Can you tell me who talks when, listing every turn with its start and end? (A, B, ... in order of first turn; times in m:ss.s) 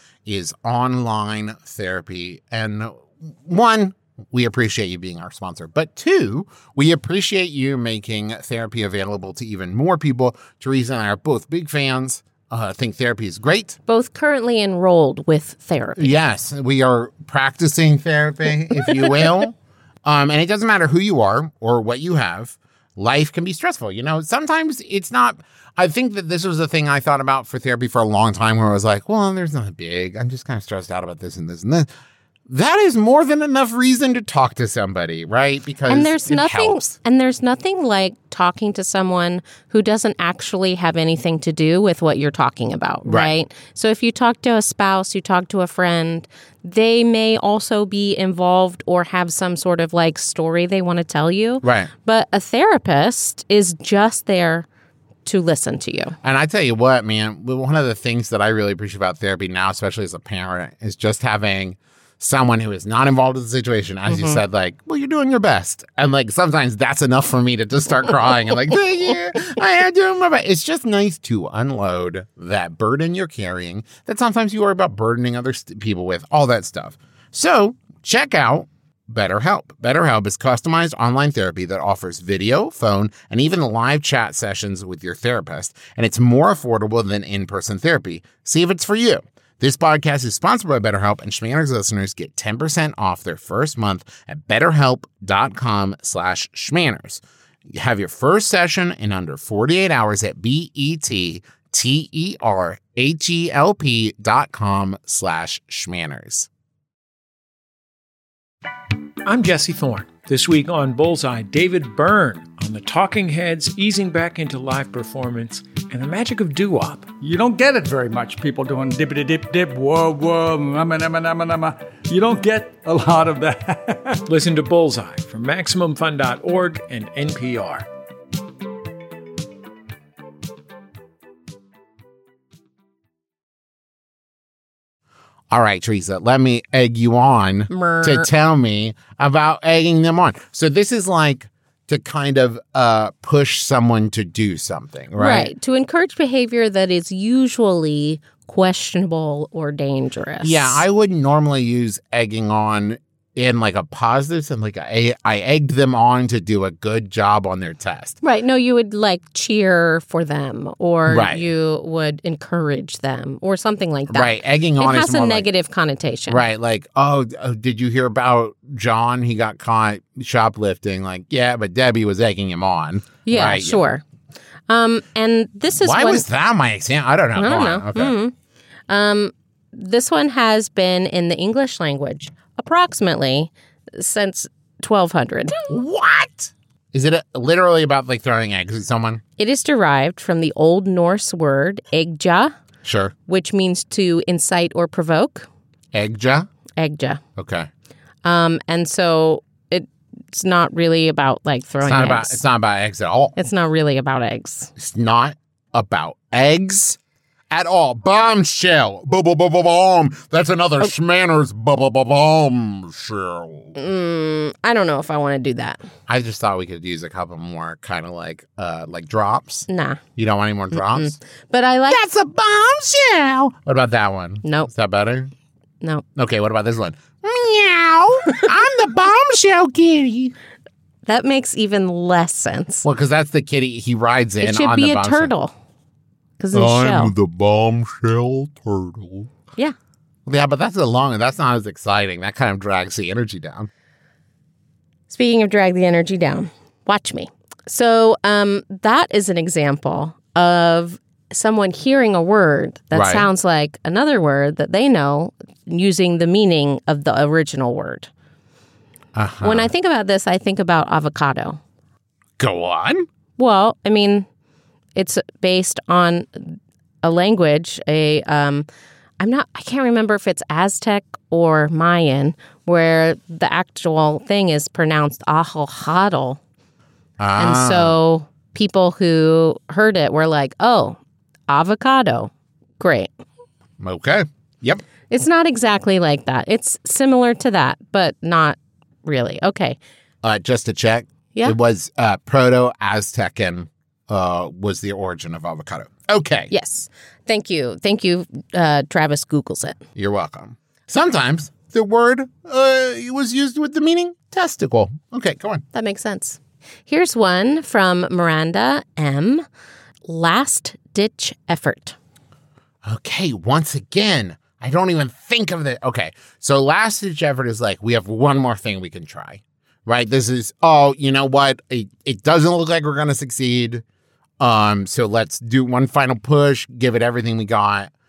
0:00.2-0:13.8 A
0:13.9-0:16.1 B
0:16.0-0:31.9 A
0:18.9-0:19.3 B
0:32.5-0:36.9 A
0:35.9-0:54.7 B
0:43.0-0:43.3 A
0:51.6-0:51.9 A
0:55.2-0:56.2 B
0:56.2-1:46.5 A
1:04.1-1:04.4 B
1:49.2-1:57.1 C
1:57.2-2:04.2 D
2:04.2-2:07.9 C
2:15.5-2:25.5 A
2:17.7-2:18.3 B
2:25.2-2:30.8 B
2:30.4-2:38.2 A
2:38.2-2:46.4 B
2:41.1-2:41.4 A
2:44.1-2:45.5 A
2:46.3-2:53.9 A
2:53.2-2:54.0 B
2:54.7-2:56.2 B
2:55.8-2:58.1 A
2:57.4-2:58.3 B
2:58.9-3:05.6 B
3:05.7-3:09.2 A
3:09.4-3:12.5 B
3:12.8-3:13.1 A
3:13.3-3:15.5 B
3:15.9-3:16.5 A
3:16.8-3:17.2 B
3:17.4-3:17.7 A
3:18.2-3:22.4 B
3:21.8-3:23.3 A
3:23.4-3:24.7 B
3:24.8-3:27.0 A
3:27.5-3:33.8 A
3:33.8-3:35.8 B
3:36.1-3:41.2 A
3:39.7-3:40.0 B
3:40.7-3:42.0 B
3:41.9-3:45.3 A
3:44.4-3:44.7 B
3:46.2-3:50.3 A
3:51.0-3:52.8 B
3:52.8-3:55.3 A
3:54.4-3:55.5 B
3:56.4-3:57.1 B
3:56.5-3:59.3 A
4:00.2-4:03.7 A
4:05.1-4:18.1 B
4:12.9-4:13.3 A
4:19.2-4:19.7 A
4:19.4-4:21.6 B
4:22.4-4:23.1 A
4:23.4-4:24.2 B
4:25.0-4:28.7 B
4:29.2-4:36.4 B
4:37.2-4:37.9 A
4:37.4-4:43.1 B
4:43.8-4:44.8 A
4:45.1-4:49.8 B
4:50.2-4:56.5 A
4:56.5-4:59.8 B
5:00.0-5:05.6 A
5:05.7-5:09.4 B
5:10.1-5:12.0 B
5:12.8-5:23.8 A
5:24.4-5:27.9 A